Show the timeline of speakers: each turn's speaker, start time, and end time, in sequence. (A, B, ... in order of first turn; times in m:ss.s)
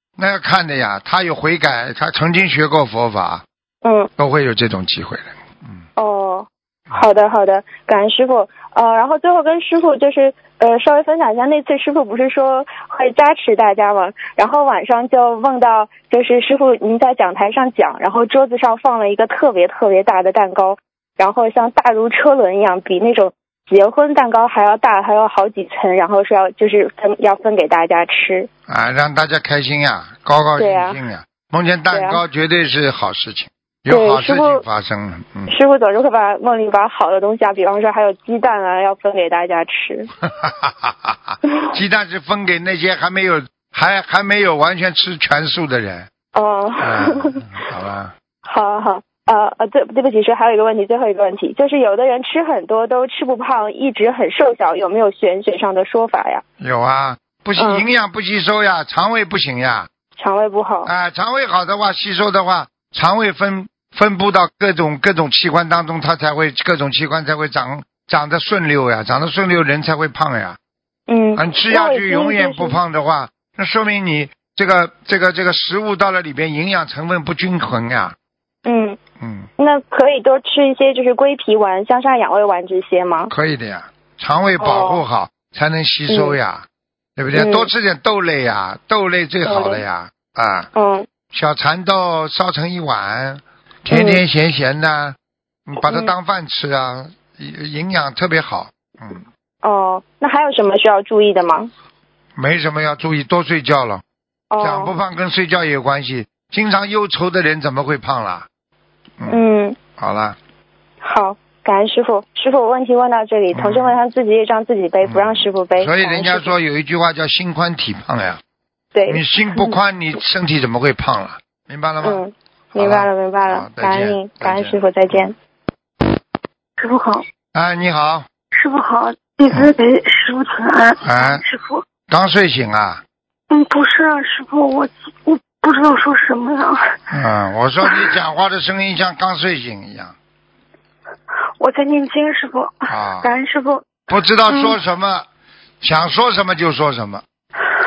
0:00.2-0:03.4 A
0:03.8-0:04.1 B
0:04.2-0:05.8 A
0:06.0-0:28.5 B
0:28.7-0:35.6 A
0:30.6-0:31.0 B
0:31.9-0:32.2 B
0:33.9-0:34.6 B
0:35.5-0:40.1 B
0:40.2-0:46.1 A
0:46.3-0:47.4 B
0:46.8-0:48.1 A
0:48.4-0:56.4 B
0:56.6-0:59.9 A
0:57.6-0:57.9 B
1:00.2-1:00.9 B
1:00.8-1:10.6 A
1:11.1-1:12.8 B
1:11.4-1:18.2 A
1:18.6-1:19.0 B
1:19.2-1:19.5 A
1:19.6-1:23.3 B
1:23.3-1:30.7 A
1:24.6-1:25.0 B
1:26.1-1:26.4 B
1:27.4-1:27.7 B
1:29.5-1:29.8 B
1:30.8-1:31.1 B
1:31.3-1:39.2 A
1:33.9-1:34.2 B
1:35.9-1:36.1 B
1:39.6-1:41.7 B
1:42.4-1:44.0 A
1:44.5-1:45.0 B
1:44.6-1:48.5 A
1:49.2-1:50.4 A
1:49.3-1:49.8 B
1:51.0-1:56.6 B
1:53.5-1:54.0 A
1:55.0-1:58.4 A
1:59.0-1:59.8 B
1:59.1-2:02.2 A
2:02.0-2:05.4 B
2:02.8-2:05.3 A
2:06.8-2:07.2 C
2:07.5-2:08.3 A
2:08.5-2:11.8 C
2:11.0-2:11.4 A
2:12.1-2:13.0 A
2:13.5-2:16.9 C
2:17.1-2:20.2 A
2:21.6-2:23.9 C
2:22.9-2:23.3 A
2:24.1-2:25.3 A
2:24.5-2:24.8 C
2:25.8-2:27.2 A